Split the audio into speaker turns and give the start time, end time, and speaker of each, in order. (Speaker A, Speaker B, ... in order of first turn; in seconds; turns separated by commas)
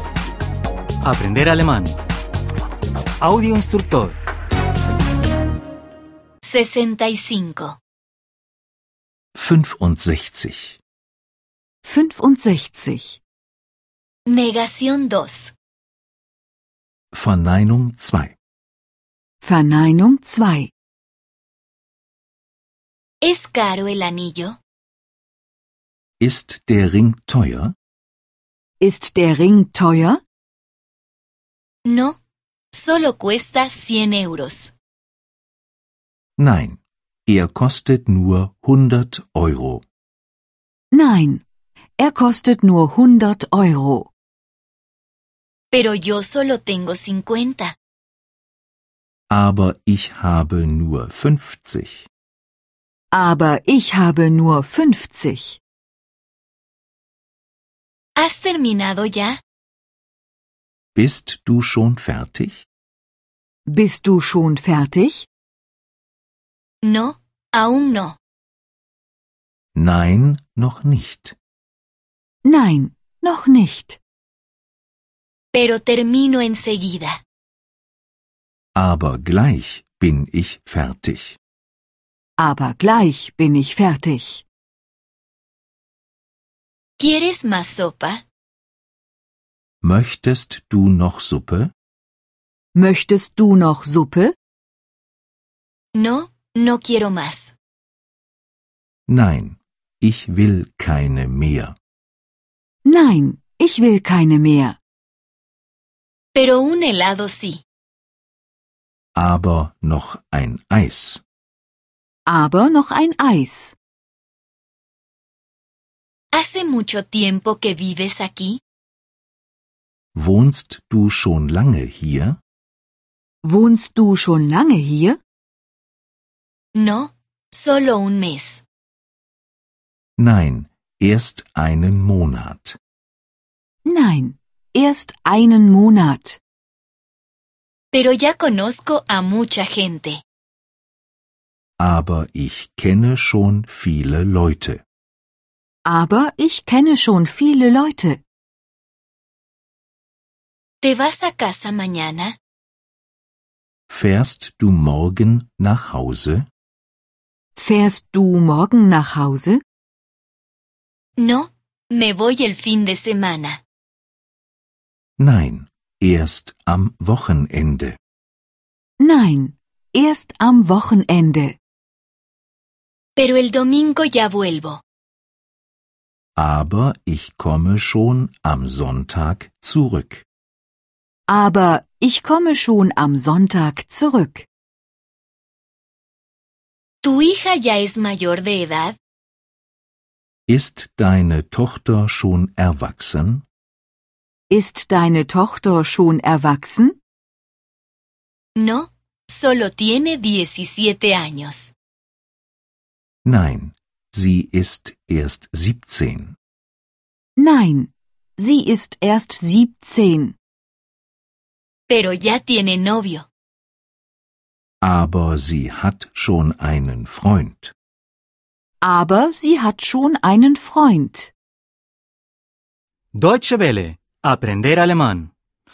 Speaker A: 1.0-2.0, Speaker A: 3.2-4.2, Speaker B: 6.4-7.8, Speaker C: 9.3-10.8, Speaker D: 11.8-13.2, Speaker B: 14.3-15.5, Speaker C: 17.1-18.4, Speaker D: 19.4-20.7, Speaker B: 23.2-24.6, Speaker C: 26.2-27.7, Speaker D: 28.8-30.2, Speaker B: 31.9-32.2, Speaker B: 32.7-34.7, Speaker C: 36.4-39.8, Speaker D: 40.9-41.4, Speaker D: 42.0-44.1, Speaker B: 45.7-47.7, Speaker C: 49.3-52.1, Speaker D: 53.1-55.6, Speaker B: 58.2-59.4, Speaker C: 60.9-62.6, Speaker D: 63.7-65.3, Speaker B: 66.8-68.2, Speaker C: 69.7-71.3, Speaker D: 72.4-74.0, Speaker B: 75.5-77.2, Speaker C: 78.8-81.4, Speaker D: 82.4-84.4, Speaker B: 87.0-88.2, Speaker C: 89.8-91.7, Speaker D: 92.7-94.3, Speaker B: 96.0-97.5, Speaker C: 99.1-101.8, Speaker D: 102.8-104.8, Speaker B: 106.3-107.6, Speaker C: 109.2-111.2, Speaker D: 112.3-113.7, Speaker B: 116.3-118.6, Speaker C: 120.1-122.4, Speaker D: 123.4-125.2, Speaker B: 126.7-128.6, Speaker C: 130.2-132.8, Speaker D: 133.8-136.4, Speaker B: 137.9-140.2, Speaker C: 141.8-144.8, Speaker D: 145.8-148.2, Speaker B: 150.8-152.3, Speaker C: 153.9-156.5, Speaker D: 157.6-159.6, Speaker B: 161.2-163.6, Speaker C: 165.2-168.0, Speaker D: 169.0-171.6, Speaker B: 173.2-174.8, Speaker C: 176.4-180.2, Speaker D: 181.3-184.5, Speaker B: 187.0-189.0, Speaker C: 190.5-193.4, Speaker D: 194.5-197.0, Speaker B: 198.6-201.7, Speaker C: 203.2-206.4, Speaker D: 207.4-210.3, Speaker B: 211.9-213.3, Speaker C: 214.8-217.7, Speaker D: 218.8-221.3, Speaker A: 223.1-225.3